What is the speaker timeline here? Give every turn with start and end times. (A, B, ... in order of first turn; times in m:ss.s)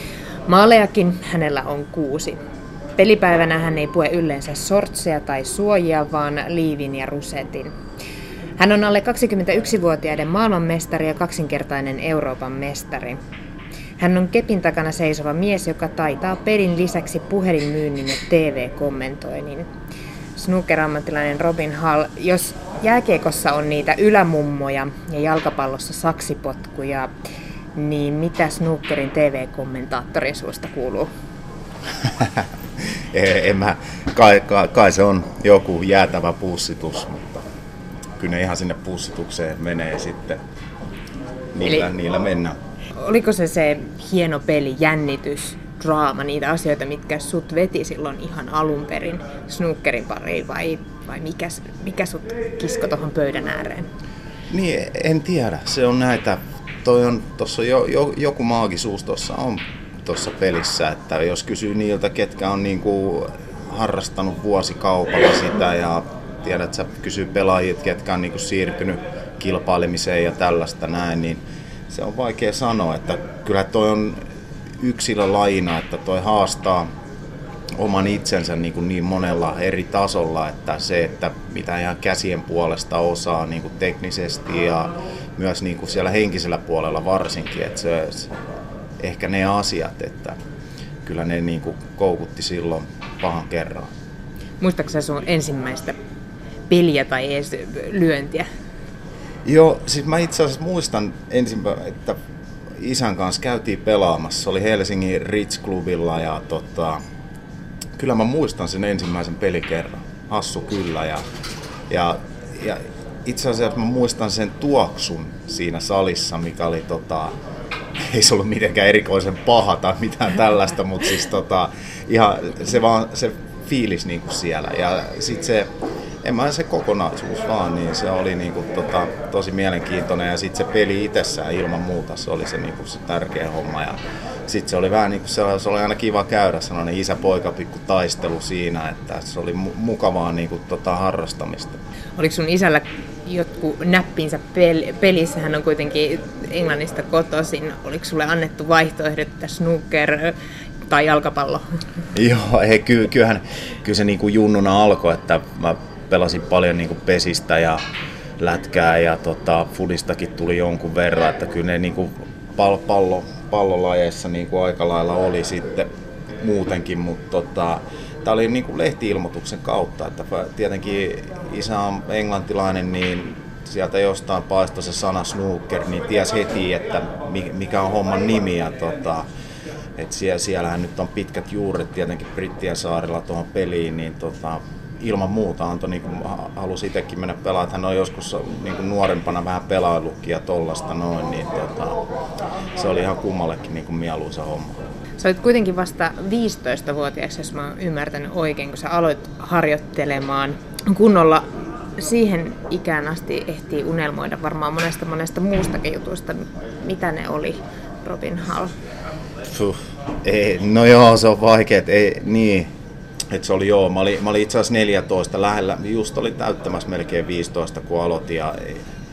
0:00.5-0:02.4 A
0:03.0-0:07.7 A
0:08.6-0:13.2 A
0:14.0-0:19.7 A
0:20.4-0:27.1 A
0:27.7-0:31.1 A
0:32.0-0:37.4 B
0:38.2-0:40.4 B
0:41.5-0:42.6 B
0:43.0-0:53.9 A
0:54.5-1:14.2 B
1:14.8-1:16.9 B
1:17.8-1:28.3 B
1:29.0-1:30.4 B
1:31.0-1:33.9 B
1:34.6-1:36.0 A
1:36.7-1:38.5 A
1:39.4-1:42.2 B
1:42.8-1:47.0 B
1:48.0-1:51.2 B
1:51.9-1:57.3 B
1:58.0-2:05.7 B
2:06.2-2:21.8 B
2:22.2-2:30.4 A
2:30.9-2:31.6 A
2:32.1-2:37.8 B
2:38.4-2:45.9 B
2:46.4-2:59.2 B
3:00.0-3:12.0 B
3:12.8-3:14.8 B
3:15.2-3:21.4 A
3:22.0-3:28.7 A
3:29.5-3:32.7 B
3:33.3-3:38.8 B